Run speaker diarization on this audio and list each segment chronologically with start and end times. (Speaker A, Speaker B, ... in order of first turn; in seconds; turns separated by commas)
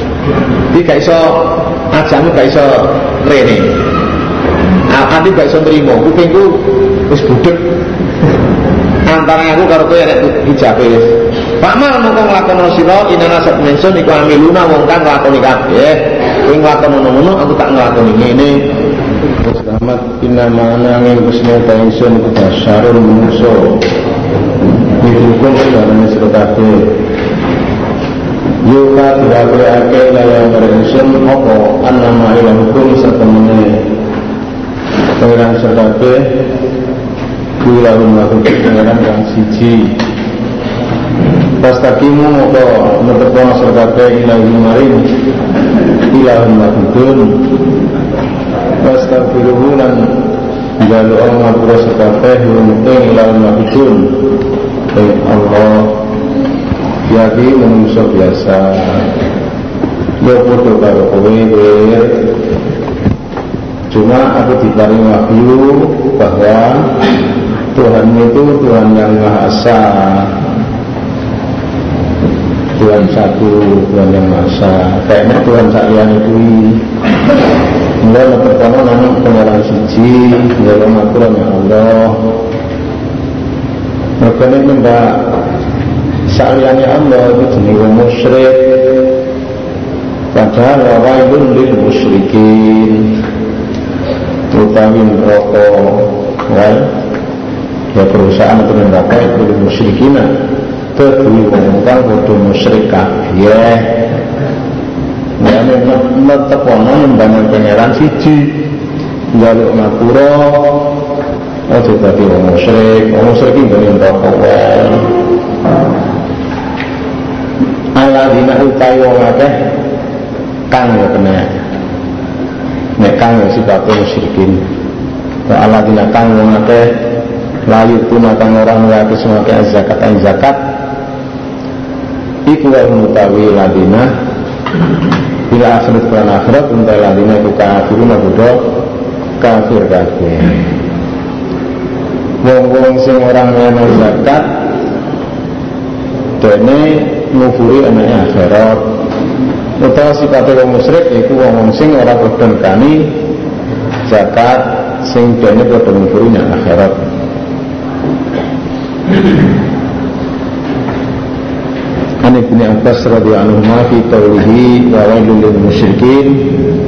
Speaker A: 0.7-3.7, Speaker A: 4.9-7.6, Speaker A: 9.1-18.6, Speaker A: 19.4-23.8, Speaker A: 25.0-26.9, Speaker A: 28.6-33.9, Speaker A: 35.2-36.3, Speaker A: 37.6-40.0, Speaker A: 41.6-45.1, Speaker A: 46.1-47.4, Speaker A: 48.8-50.2, Speaker A: 50.8-54.2, Speaker A: 54.9-56.0, Speaker A: 57.1-59.1, Speaker A: 60.2-62.1, Speaker A: 63.9-66.9, Speaker A: 67.7-70.3, Speaker A: 72.8-76.8, Speaker A: 78.0-82.3, Speaker A: 84.2-85.2, Speaker A: 86.3-88.8, Speaker A: 90.3-93.2, Speaker A: 94.5-96.9, Speaker A: 97.9-100.3, Speaker A: 101.0-103.9, Speaker A: 105.4-108.6, Speaker A: 109.3-110.9, Speaker A: 111.7-115.1, Speaker A: 118.0-119.6, Speaker A: 120.7-121.5, Speaker A: 123.0-124.6, Speaker A: 125.5-126.9, Speaker A: 127.7-130.6, Speaker A: 132.5-134.1, Speaker A: 135.5-138.6, Speaker A: 139.4-140.6, Speaker A: 142.4-144.4, Speaker A: 146.4-148.8, Speaker A: 149.8-153.1, Speaker A: 154.1-156.9, Speaker A: 162.2-166.4